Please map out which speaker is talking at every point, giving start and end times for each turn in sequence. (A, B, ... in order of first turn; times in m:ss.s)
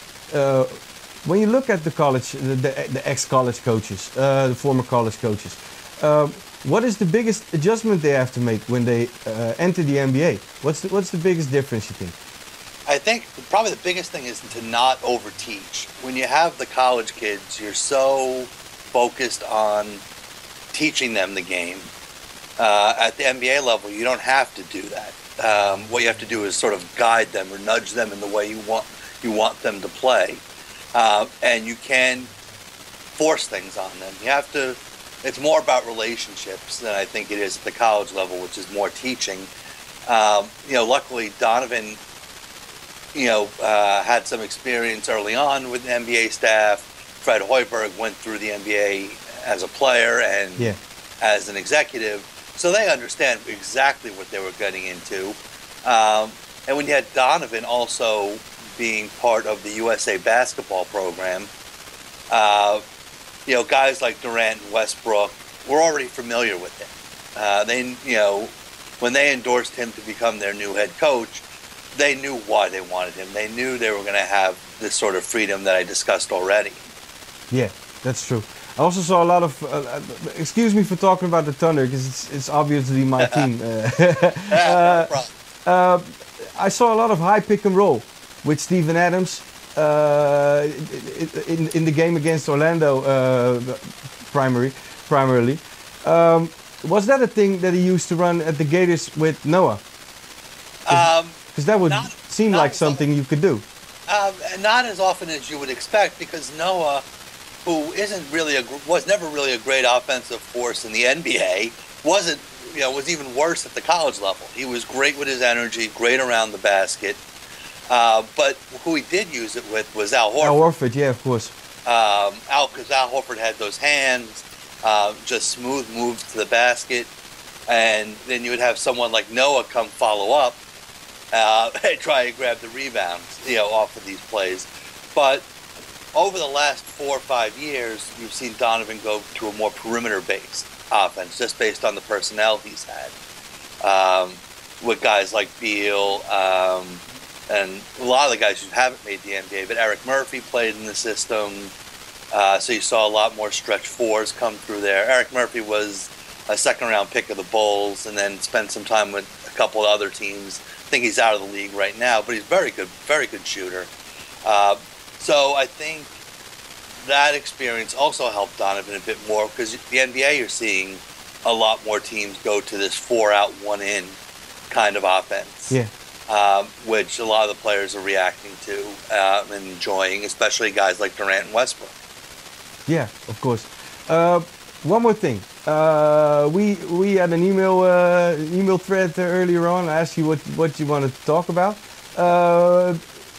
0:00.3-0:12.2 A
0:12.9-0:20.0 B
0:20.7-0:21.9 B
0:22.6-0:30.4 B
0:31.0-0:32.3 B
0:33.2-0:39.5 B
0:40.1-0:42.0 B
0:43.1-1:01.5 B
1:02.3-1:02.8 B
1:03.5-1:11.4 B
1:12.0-1:16.8 B
1:17.5-1:25.1 A
1:24.5-1:25.3 B
1:25.7-1:39.8 A
1:40.9-1:43.0 B
1:40.9-1:43.6 A
1:44.1-1:47.0 B
1:47.6-1:57.2 B
1:57.9-2:00.6 B
2:00.4-2:01.5 A
2:01.9-2:07.1 B
2:07.7-2:10.6 B
2:11.3-2:15.5 B
2:16.1-2:23.1 B
2:23.8-2:31.7 B
2:32.3-2:43.9 B
2:44.4-2:46.1 B
2:47.0-2:54.2 B
2:54.7-2:55.8 B
2:56.3-3:02.0 B
3:02.9-3:13.0 A